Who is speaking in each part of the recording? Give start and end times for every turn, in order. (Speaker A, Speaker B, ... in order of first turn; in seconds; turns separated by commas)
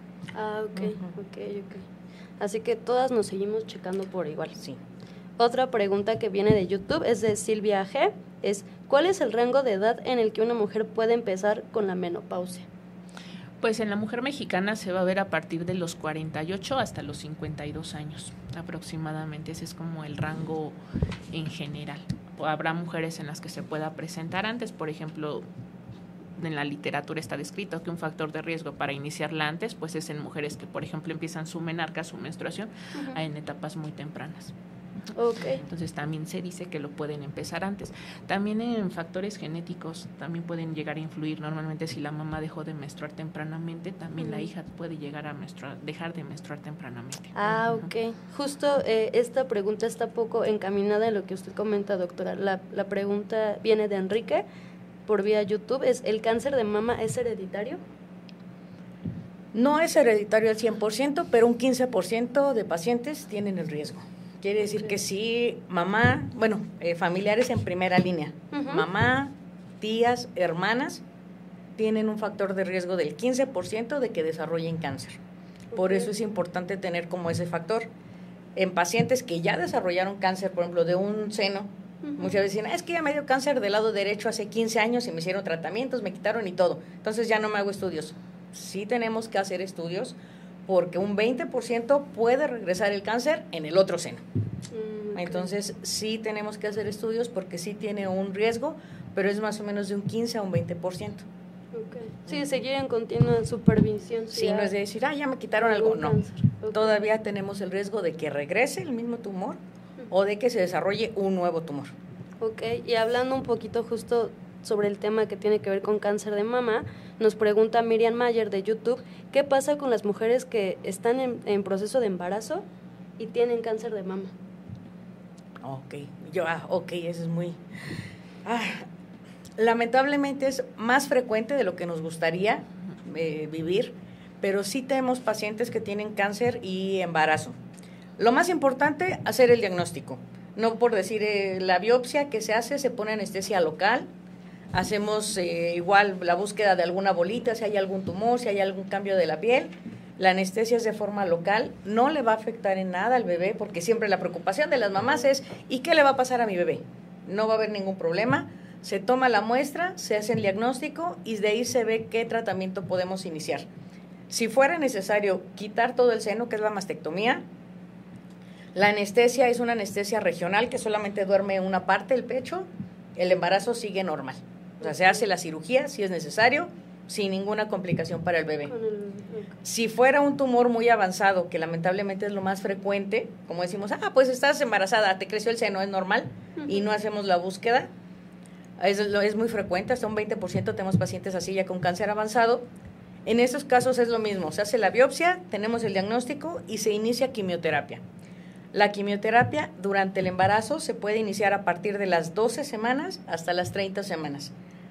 Speaker A: 0.3-1.9, Speaker B: 0.8-1.1, Speaker A: 2.4-4.6, Speaker A: 5.4-12.7, Speaker C: 13.6-20.8, Speaker C: 21.3-25.4, Speaker C: 26.4-34.5, Speaker A: 35.1-35.6, Speaker C: 35.6-47.4, Speaker A: 44.2-44.5, Speaker A: 47.3-54.4, Speaker A: 55.0-57.8, Speaker B: 59.5-71.0, Speaker A: 68.5-68.8, Speaker B: 71.8-75.2, Speaker A: 75.7-76.1, Speaker B: 75.8-77.9, Speaker B: 78.5-94.2, Speaker A: 82.0-82.3, Speaker A: 94.7-95.5, Speaker B: 95.1-101.2, Speaker A: 101.7-104.7, Speaker B: 104.3-106.2, Speaker A: 105.6-106.9, Speaker B: 106.7-109.6, Speaker B: 110.1-111.9, Speaker A: 112.4-122.6, Speaker A: 123.2-124.3, Speaker B: 125.6-128.9, Speaker B: 129.6-137.6, Speaker B: 138.2-144.1, Speaker B: 144.7-163.7, Speaker B: 164.3-167.4, Speaker B: 168.7-178.7, Speaker A: 178.7-179.6, Speaker B: 179.6-187.9, Speaker A: 186.6-186.8, Speaker B: 188.8-192.7, Speaker B: 193.2-198.0, Speaker B: 198.7-204.5